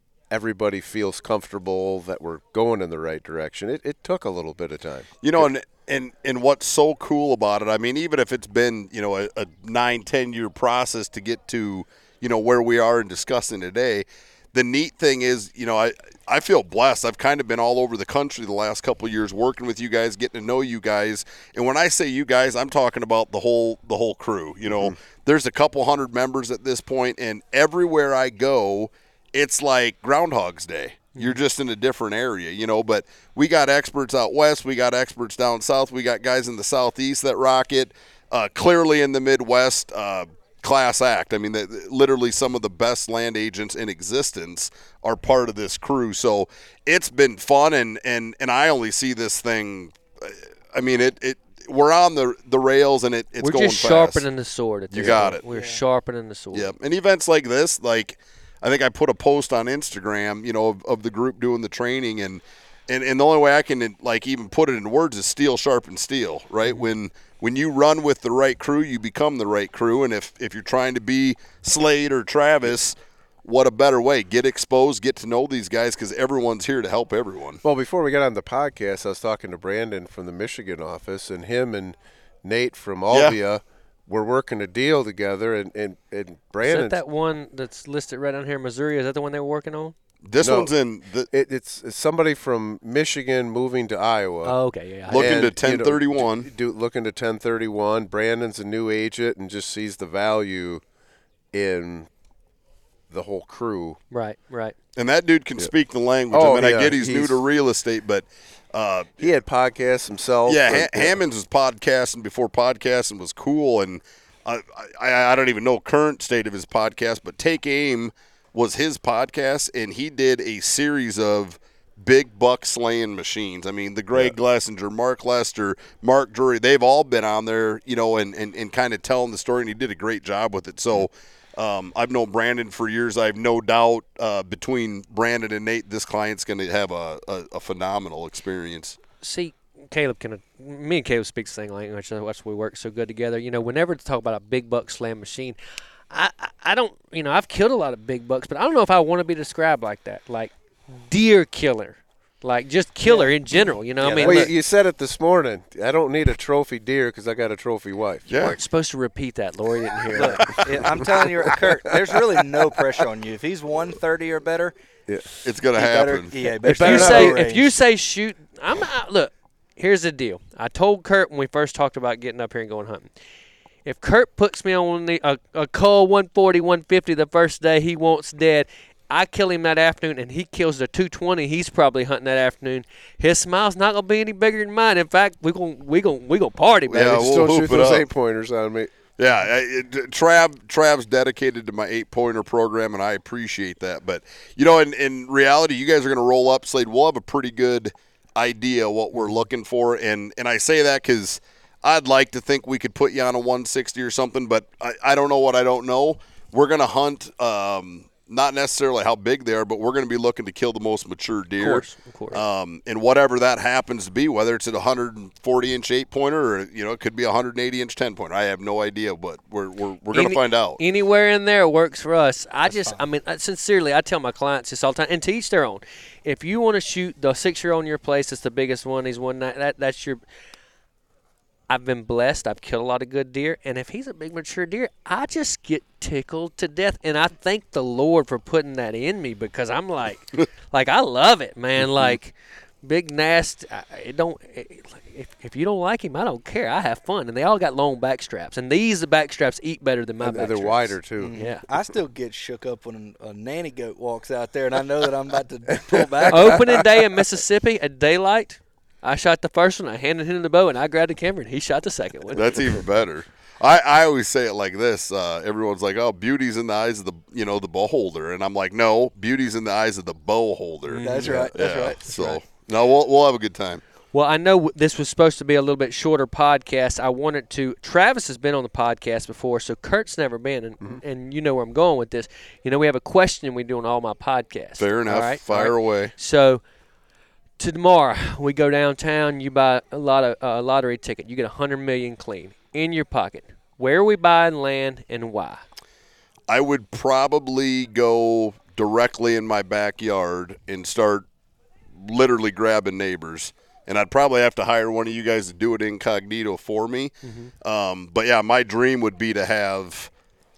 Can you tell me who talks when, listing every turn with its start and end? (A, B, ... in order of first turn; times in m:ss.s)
0:00.3-0:05.4 A
0:05.2-0:54.2 B
0:24.7-0:24.9 A
0:53.4-0:56.7 C
0:54.9-0:55.4 B
0:55.5-0:55.8 D
0:56.5-1:17.6 B
1:17.6-1:27.0 A
1:23.1-1:23.4 B
1:26.6-1:30.0 C
1:30.2-1:31.3 B
1:30.4-1:30.7 A
1:31.3-1:34.6 A
1:34.4-1:35.4 C
1:35.1-1:36.5 B
1:35.1-1:40.8 A
1:41.5-1:42.1 A
1:43.1-1:44.0 A
1:44.1-1:44.8 C
1:45.0-1:49.2 B
1:46.3-1:47.4 A
1:49.2-1:51.2 A
1:50.5-2:19.0 B
2:19.2-2:25.6 C
2:26.1-2:34.5 C
2:33.0-2:34.5 D
2:34.0-2:38.3 A
2:38.3-2:38.6 B
2:38.3-2:40.7 C
2:39.8-2:41.2 A
2:40.2-2:44.8 D
2:41.9-2:42.2 A
2:45.4-2:46.3 B
2:45.7-2:47.8 D
2:46.6-2:47.4 A
2:46.7-2:53.1 C
2:53.8-3:07.4 C
3:06.9-3:08.9 A
3:06.9-3:08.1 B
3:09.2-3:40.8 B
3:31.6-3:32.4 C
3:40.1-3:50.2 C
3:42.7-3:43.0 D
3:51.7-4:11.6 C
4:10.2-4:11.4 A
4:11.2-4:16.8 D
4:16.2-4:16.6 A
4:16.3-4:22.8 C
4:22.3-4:33.8 B
4:30.9-4:31.4 C
4:31.0-4:32.4 D
4:34.1-4:46.6 C
4:44.8-4:46.1 B
4:47.6-4:55.6 C
4:56.5-5:01.3 B
5:02.0-5:07.1 B
5:07.2-5:07.5 C
5:07.6-5:10.1 B